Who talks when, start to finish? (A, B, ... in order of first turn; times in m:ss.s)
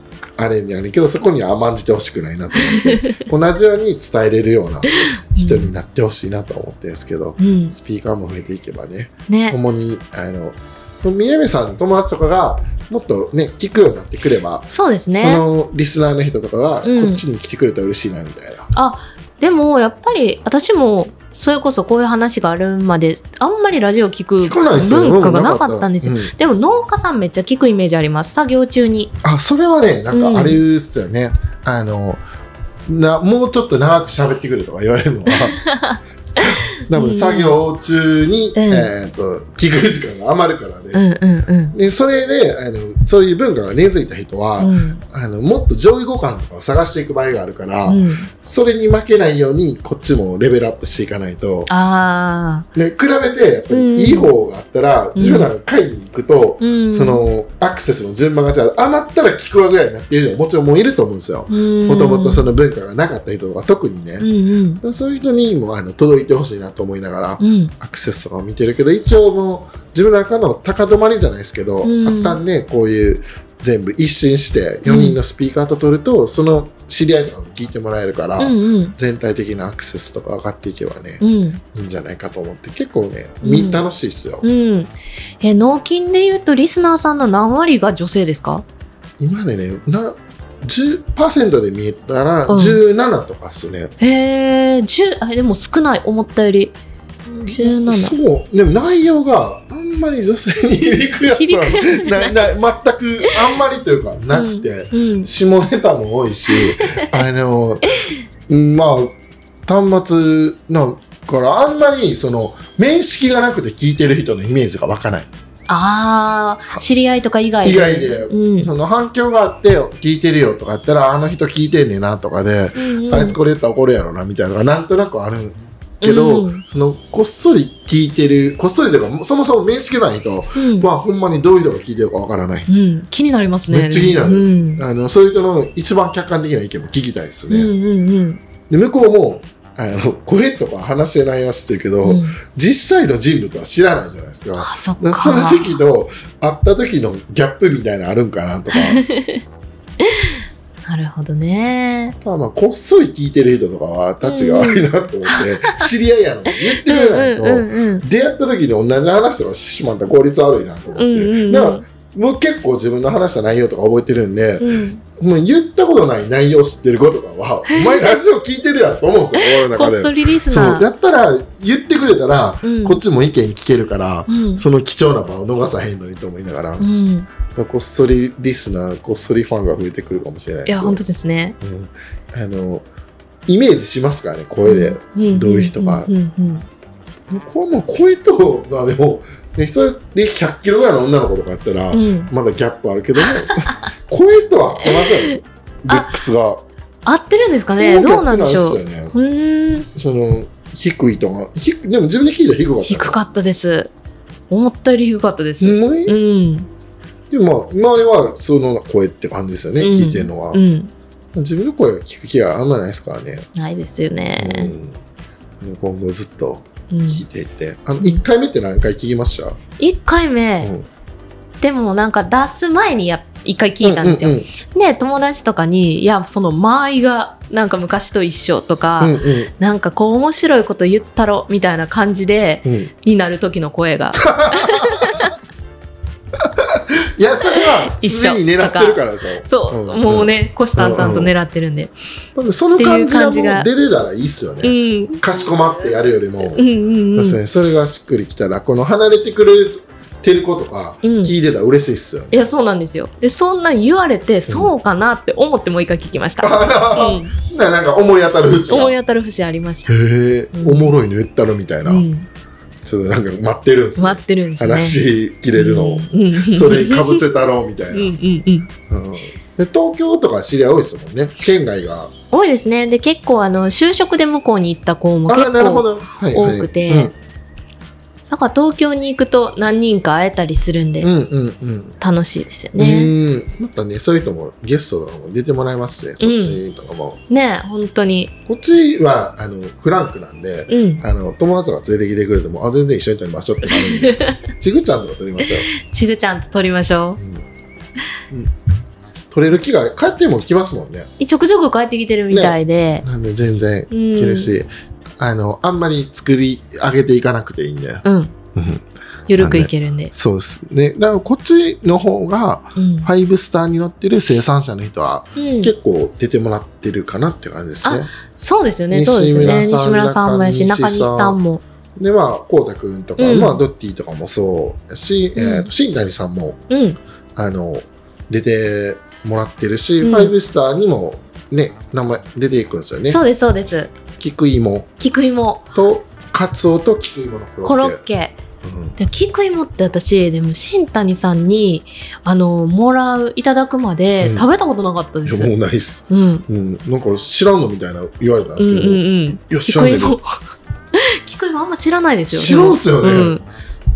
0:00.4-0:18.7 A
0:02.5-0:03.2 B
0:04.9-0:05.7 B
0:07.4-0:07.8 B
0:09.3-0:09.6 B
0:14.7-0:15.4 B
0:16.8-0:17.2 B
0:18.7-0:29.1 B
0:24.4-0:26.3 A
0:29.2-0:32.2 A
0:30.1-0:30.6 B
0:32.9-0:35.6 A
0:35.3-0:37.6 B
0:36.4-0:41.0 A
0:38.5-0:38.9 B
0:40.9-0:41.8 B
0:41.7-0:51.7 A
0:44.6-0:45.0 B
0:47.8-0:48.3 B
0:51.7-0:52.6 B
0:52.7-1:04.3 A
0:53.7-0:54.3 B
0:55.1-0:55.5 B
0:56.6-0:57.2 B
1:01.5-1:02.5 B
1:04.2-1:04.8 B
1:04.8-1:24.4 A
1:07.4-1:07.7 B
1:11.8-1:12.4 B
1:14.8-1:15.2 B
1:18.4-1:19.0 B
1:21.2-1:21.6 B
1:23.4-1:23.8 B
1:24.4-1:28.6 B
1:29.2-1:33.9 A
1:32.5-1:32.8 B
1:34.0-1:36.7 B
1:37.3-1:47.8 A
1:37.4-1:38.2 B
1:41.2-1:42.5 B
1:44.3-1:45.3 B
1:46.5-1:47.2 B
1:48.5-1:49.1 A
1:49.6-1:55.3 A
1:55.7-1:58.7 B
1:57.6-2:12.7 A
2:02.8-2:03.4 B
2:06.0-2:06.6 B
2:10.5-2:10.9 B
2:12.7-2:14.8 B
2:13.7-2:17.7 A
2:17.5-2:18.4 B
2:18.7-2:29.0 A
2:22.0-2:22.4 B
2:24.6-2:25.8 B
2:28.7-2:29.4 B
2:30.0-2:32.1 B
2:32.1-2:56.9 A
2:34.2-2:35.9 B
2:36.6-2:38.0 B
2:41.0-2:41.8 B
2:44.6-2:45.0 B
2:47.7-2:48.1 B
2:49.4-2:50.9 B
2:52.6-2:53.0 B
2:54.3-2:54.6 B
2:56.8-2:57.3 B
2:57.5-3:01.0 A
3:00.6-3:01.6 B
3:01.6-3:02.8 A
3:03.5-3:06.1 A
3:04.6-3:06.6 B
3:07.3-3:16.6 A
3:11.9-3:12.3 B
3:13.2-3:13.9 B
3:14.8-3:16.1 B
3:17.0-3:19.9 B
3:17.8-3:19.1 A
3:19.9-3:23.2 A
3:22.8-3:23.9 B
3:24.5-3:26.7 B
3:25.6-3:26.2 A
3:27.3-3:30.6 A
3:29.8-3:30.9 B
3:31.3-3:33.5 A
3:33.5-3:34.7 B
3:34.4-3:35.0 A
3:35.6-3:39.6 A
3:36.9-3:37.2 B
3:39.8-3:40.7 B
3:41.6-3:55.3 B
3:43.8-3:44.5 A
3:49.0-3:49.5 A
3:52.6-3:52.9 A
3:54.1-3:55.3 A
3:56.4-4:01.3 A
3:57.4-4:01.9 B
4:02.4-4:06.6 A
4:02.8-4:03.7 B
4:04.6-4:05.2 B
4:06.4-4:07.4 B
4:07.1-4:12.4 A
4:11.0-4:11.3 B
4:12.3-4:17.4 B
4:14.5-4:14.7 A
4:16.4-4:18.9 A
4:18.7-4:20.0 B
4:19.9-4:22.0 A
4:20.5-4:20.9 B
4:21.8-4:22.3 B
4:22.8-4:28.2 A
4:24.0-4:25.0 B
4:25.5-4:27.2 B
4:27.9-4:28.7 B
4:28.9-4:32.1 A
4:32.3-4:37.1 B
4:35.3-4:37.1 A
4:38.3-4:41.1 B
4:41.0-4:42.0 A
4:42.0-4:43.1 B
4:42.8-4:47.2 A
4:46.2-4:46.6 B
4:47.3-4:48.3 B
4:48.5-4:55.7 A
4:50.7-4:51.0 B
4:53.6-4:54.5 B
4:55.4-4:57.2 B
4:59.3-5:01.1 A
5:01.2-5:03.0 B
5:02.3-5:08.0 A
5:03.9-5:04.5 B
5:08.0-5:08.3 B
5:08.5-5:08.8 A
5:09.3-5:10.1 B
5:09.4-5:18.1 A
5:12.8-5:13.1 B
5:15.4-5:15.7 B
5:17.8-5:21.6 B
5:18.9-5:21.4 A
5:22.0-5:26.6 A
5:23.2-5:23.6 B
5:25.4-5:25.7 B
5:26.7-5:27.0 B
5:27.4-5:33.2 A
5:30.0-5:30.3 B
5:33.1-5:33.9 B
5:34.2-5:34.9 A
5:35.0-5:35.6 B
5:35.7-5:38.0 A
5:37.6-5:38.4 B
5:38.6-5:39.0 A
5:39.0-5:45.5 B
5:44.2-5:44.5 A
5:45.2-5:50.2 A
5:46.1-5:46.4 B
5:48.6-5:50.3 B
5:50.9-5:53.4 B
5:52.3-5:53.4 A